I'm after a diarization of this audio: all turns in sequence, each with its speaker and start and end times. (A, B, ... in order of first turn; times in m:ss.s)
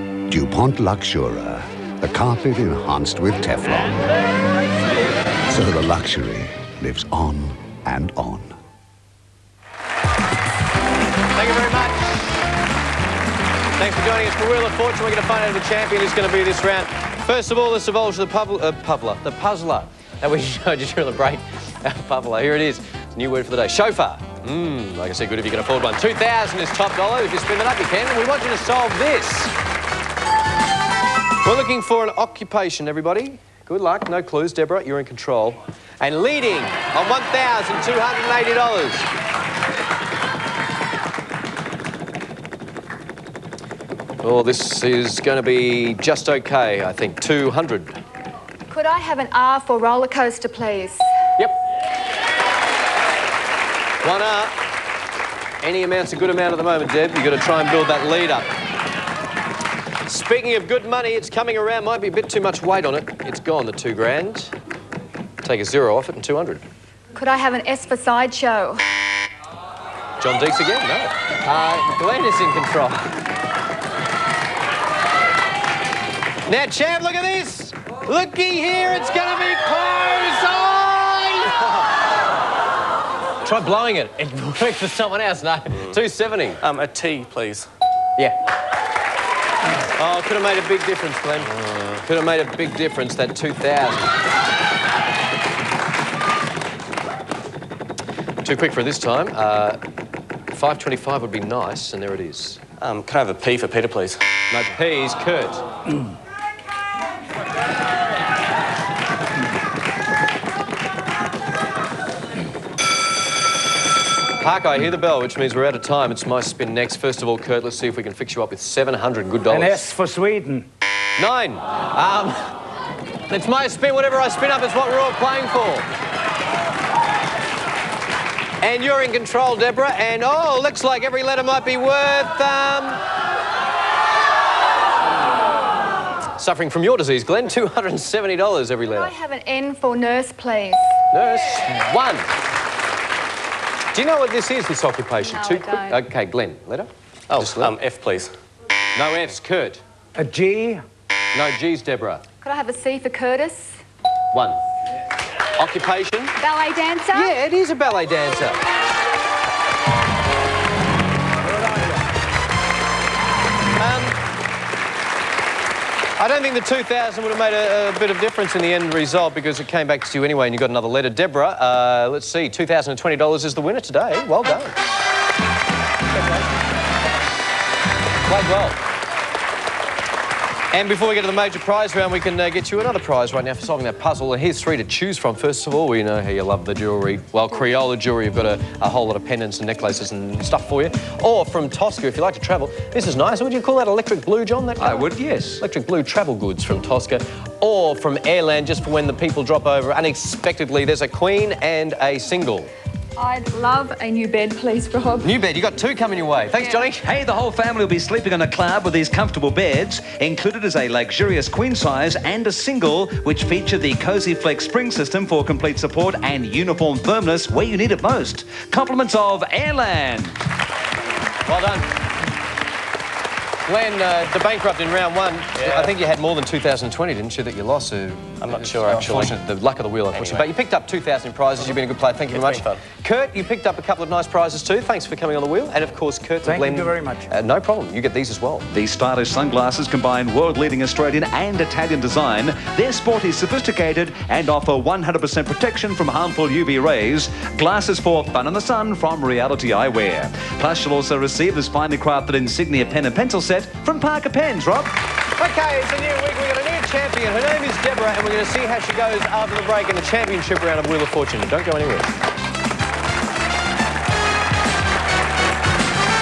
0:00.3-0:04.0 A
0:05.5-0:08.6 A
0:11.3-0:12.2 B
0:13.8-0:29.5 B
0:31.4-0:39.1 B
0:44.2-0:48.0 B
0:48.7-0:51.1 C
0:54.0-0:54.6 B
0:55.6-0:58.5 B
1:00.0-1:04.5 B
1:05.4-1:06.6 B
1:07.1-1:08.8 C
1:10.2-1:13.1 B
1:16.5-1:21.9 B
1:23.4-1:26.6 B
1:26.6-1:27.7 D
1:30.0-1:34.2 B
1:38.4-1:39.8 B
1:40.5-1:42.6 B
1:42.8-1:44.2 D
1:44.5-1:45.6 B
1:54.4-1:59.8 B
1:59.5-2:00.6 E
2:01.2-2:02.6 B
2:03.3-2:05.9 B
2:08.6-2:13.0 B
2:16.4-2:19.1 B
2:18.9-2:21.0 C
2:21.1-2:22.3 B
2:23.9-2:27.7 B
2:25.2-2:26.0 C
2:27.3-2:28.3 D
2:28.9-2:29.8 B
2:30.2-2:30.8 E
2:31.3-2:32.2 B
2:32.4-2:33.8 C
2:34.3-2:34.6 B
2:35.6-2:36.4 B
2:36.4-2:37.3 C
2:37.1-2:38.6 B
2:43.8-2:44.2 B
2:46.2-2:54.8 B
2:56.1-2:56.4 B
2:58.3-2:58.8 B
3:00.7-3:22.7 B
3:14.8-3:15.6 F
3:23.2-3:25.3 C
3:25.2-3:27.1 B
3:27.0-3:40.4 F
3:41.5-3:41.9 B
3:43.6-3:58.7 B
3:45.6-3:45.9 D
3:48.4-3:49.4 D
3:50.1-3:50.5 D
3:52.3-3:52.8 D
3:56.4-3:57.2 E
3:58.7-4:14.9 F
4:15.4-4:22.1 B